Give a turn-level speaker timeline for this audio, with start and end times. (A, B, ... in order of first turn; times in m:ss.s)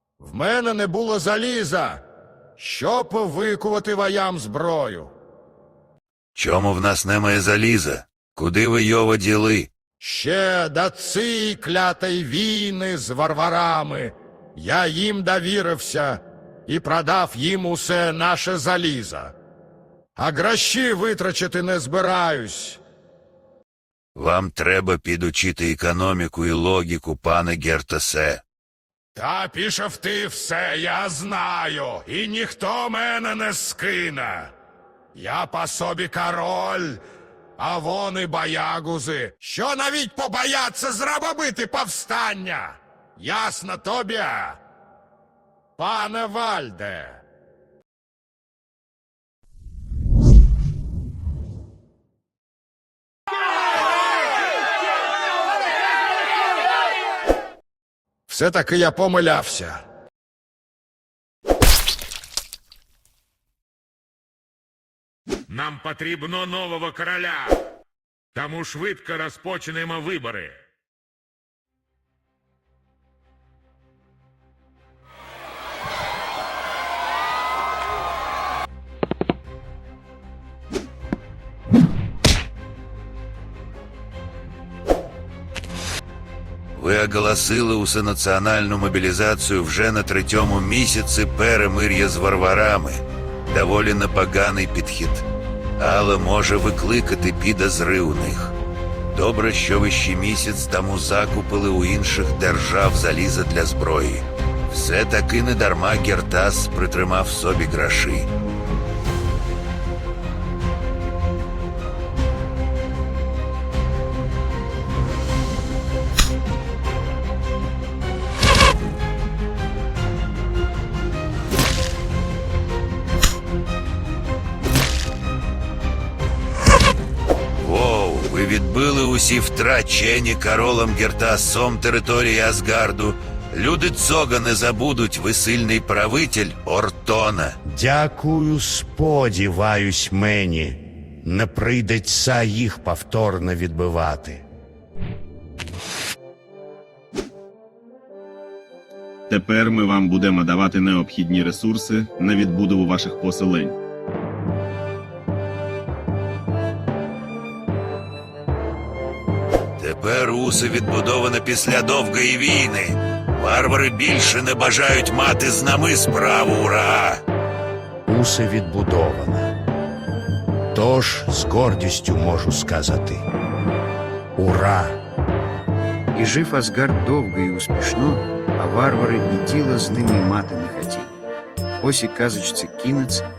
0:00.2-0:02.0 A
0:02.6-0:05.1 A
0:06.3-0:09.7 B
0:10.0-0:19.3 A
0:20.2-0:22.8 A
0:24.1-0:28.4 B
0:29.2-0:34.5 A
0:35.1-0:37.0 A
0:37.6-0:44.6 A
0:45.8-0:47.2 A
0:58.3-0:59.8 A
1:05.5-1:07.6 C
1:08.3-1:10.6 C
1:26.7-1:35.2 B
1:35.8-1:38.5 B
1:39.1-1:48.3 B
2:07.6-2:17.6 B
2:17.6-2:24.4 D
2:29.3-2:33.8 E
2:39.8-2:47.2 B
2:48.1-2:49.5 D
2:50.7-2:53.2 D
2:54.4-2:55.0 D
2:56.1-3:01.1 F
3:01.8-3:03.2 F